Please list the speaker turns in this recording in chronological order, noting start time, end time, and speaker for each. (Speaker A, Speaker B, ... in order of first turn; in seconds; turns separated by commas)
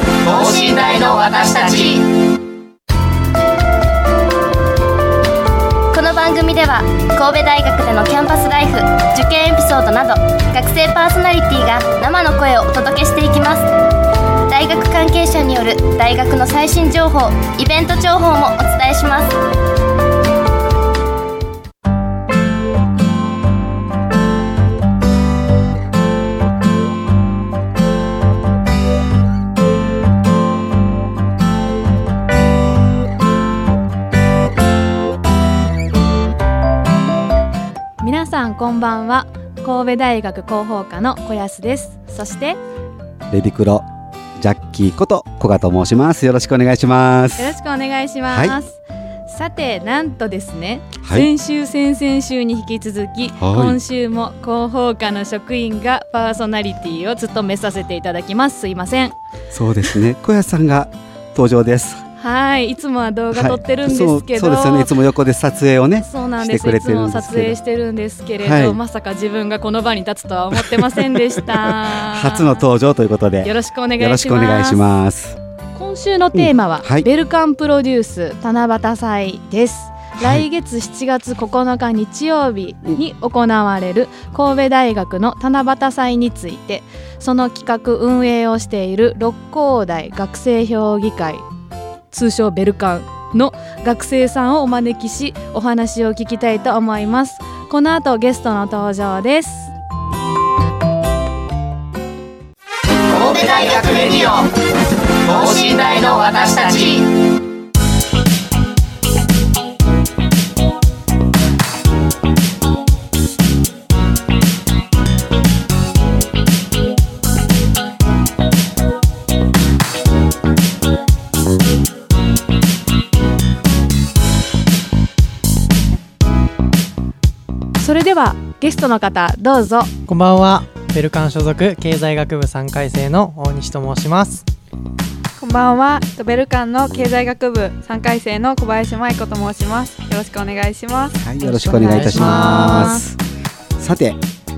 Speaker A: 0.2-2.1, Speaker B: 5.9-13.7, Speaker B: 14.4-19.4, Speaker C: 38.0-42.6, Speaker D: 43.3-47.6, Speaker C: 47.4-59.1, Speaker D: 48.3-48.5, Speaker D: 51.0-51.3, Speaker D: 53.4-53.8, Speaker D: 59.5-62.0, Speaker C: 62.2-64.9, Speaker D: 63.3-67.6, Speaker C: 66.0-72.6, Speaker D: 68.4-68.8, Speaker D: 70.5-75.4, Speaker C: 73.4-74.8, Speaker C: 75.8-91.5, Speaker D: 76.3-77.1, Speaker D: 80.2-80.5, Speaker C: 92.1-99.7, Speaker A: 103.1-104.5, Speaker A: 105.2-107.1, Speaker C: 127.8-129.9, Speaker E: 130.1-134.4, Speaker F: 135.4-141.2, Speaker D: 141.2-143.2, Speaker C: 141.4-143.0, Speaker E: 141.9-143.0, Speaker D: 143.8-144.2